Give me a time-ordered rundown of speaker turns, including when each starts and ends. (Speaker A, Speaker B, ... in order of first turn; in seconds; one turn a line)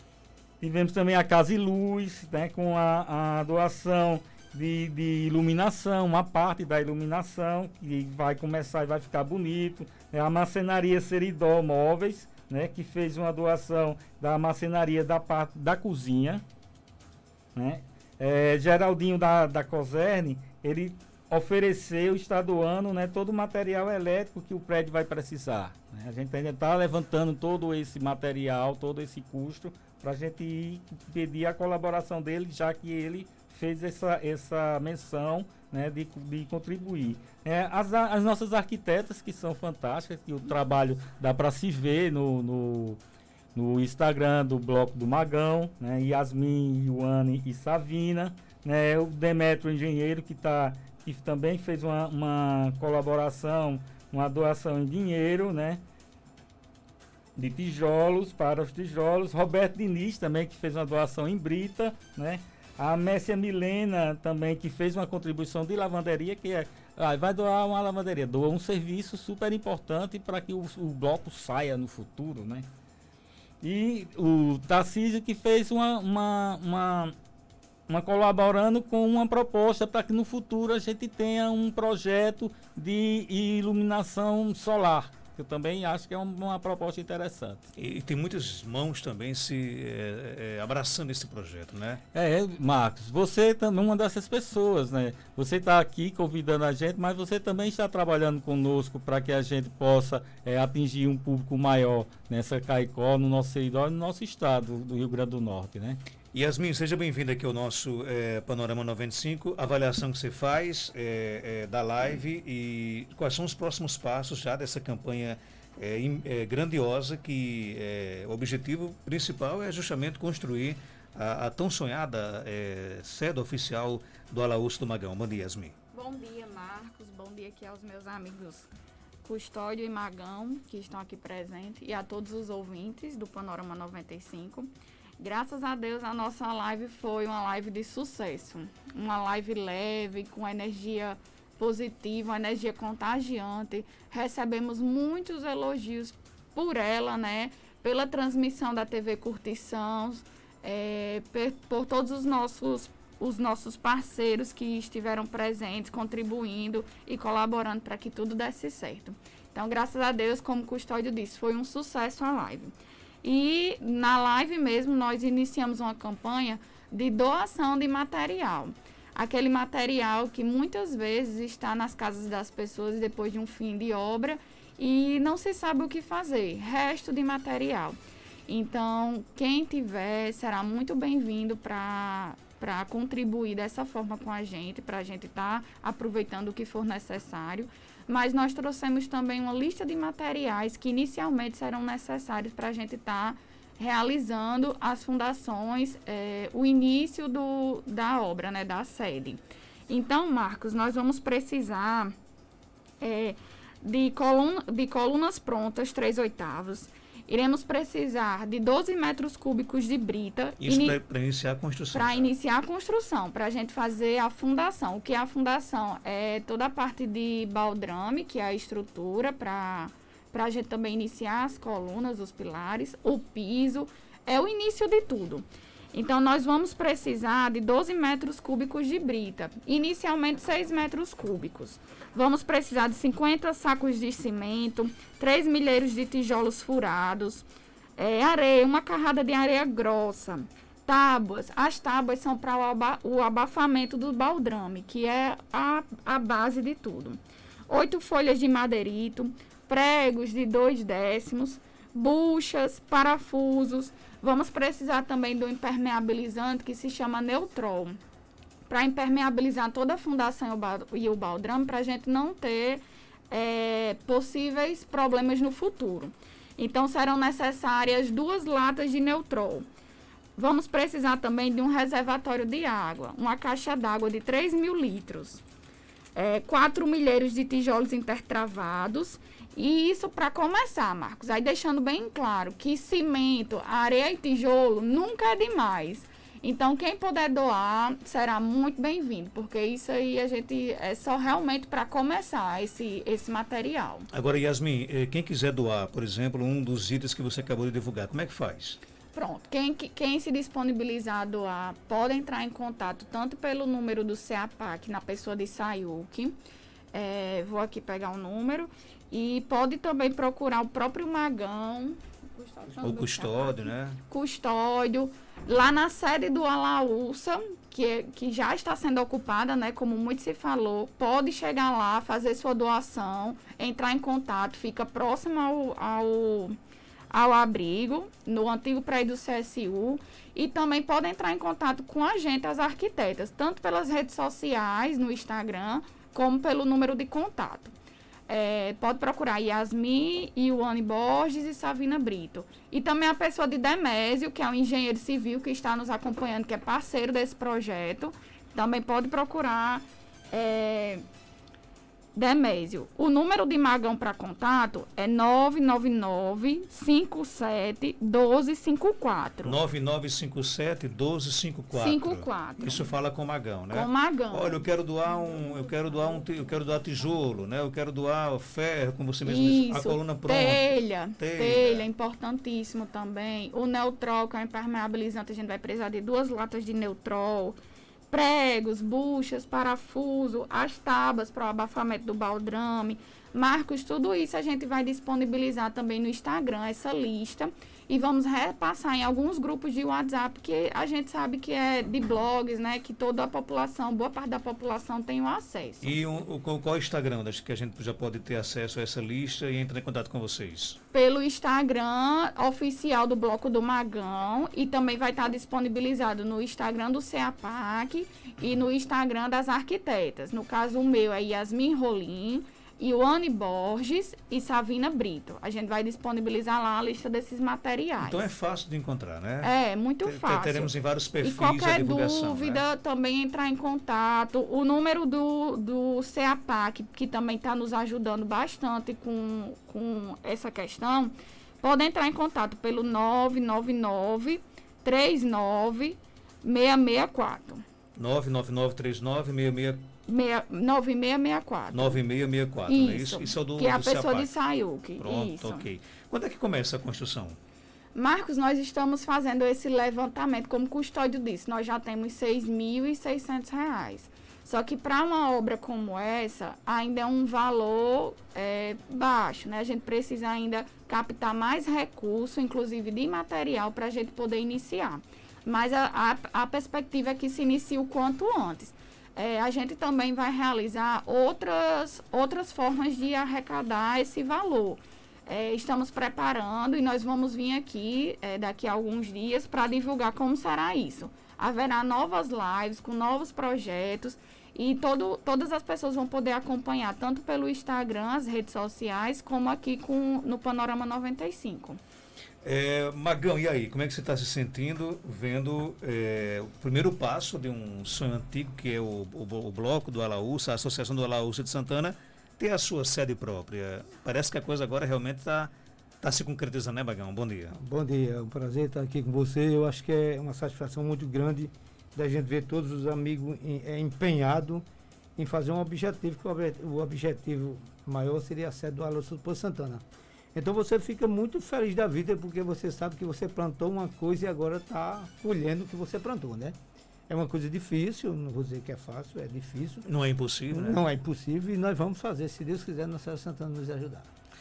Speaker A: 0.6-16.4
Speaker A: 17.6-43.0
Speaker A: 43.5-55.8
Speaker A: 57.4-72.7
Speaker A: 73.6-77.1
Speaker A: 77.9-87.7
Speaker B: 87.8-92.0
Speaker A: 92.1-106.0
Speaker B: 106.3-125.7
Speaker C: 125.9-128.7
Speaker C: 129.2-202.1
Speaker C: 203.0-211.0
Speaker B: 210.6-212.3
Speaker C: 211.9-237.5
Speaker C: 238.0-258.0
Speaker C: 258.7-269.7
Speaker C: 270.4-275.4
Speaker C: 276.1-294.1
Speaker B: 294.1-298.8
Speaker C: 299.1-306.4
Speaker C: 306.9-326.6
Speaker B: 312.8-314.0
Speaker C: 327.1-337.7
Speaker C: 338.3-351.0
Speaker C: 352.1-359.6
Speaker B: 359.4-371.9
Speaker C: 361.7-362.9
Speaker C: 363.7-364.6
Speaker C: 369.2-377.6
Speaker C: 378.1-396.0
Speaker B: 395.8-400.8
Speaker C: 400.9-418.3
Speaker B: 418.0-419.5
Speaker C: 419.4-437.6
Speaker B: 420.0-422.6
Speaker B: 438.0-439.9
Speaker C: 440.0-442.0
Speaker B: 441.7-444.3
Speaker C: 442.6-445.7
Speaker B: 445.0-447.4
Speaker C: 447.9-491.8
Speaker B: 492.4-507.6
Speaker D: 507.5-514.6
Speaker D: 515.2-519.8
Speaker D: 520.4-526.5
Speaker D: 527.1-529.9
Speaker B: 529.9-530.8
Speaker D: 530.5-534.1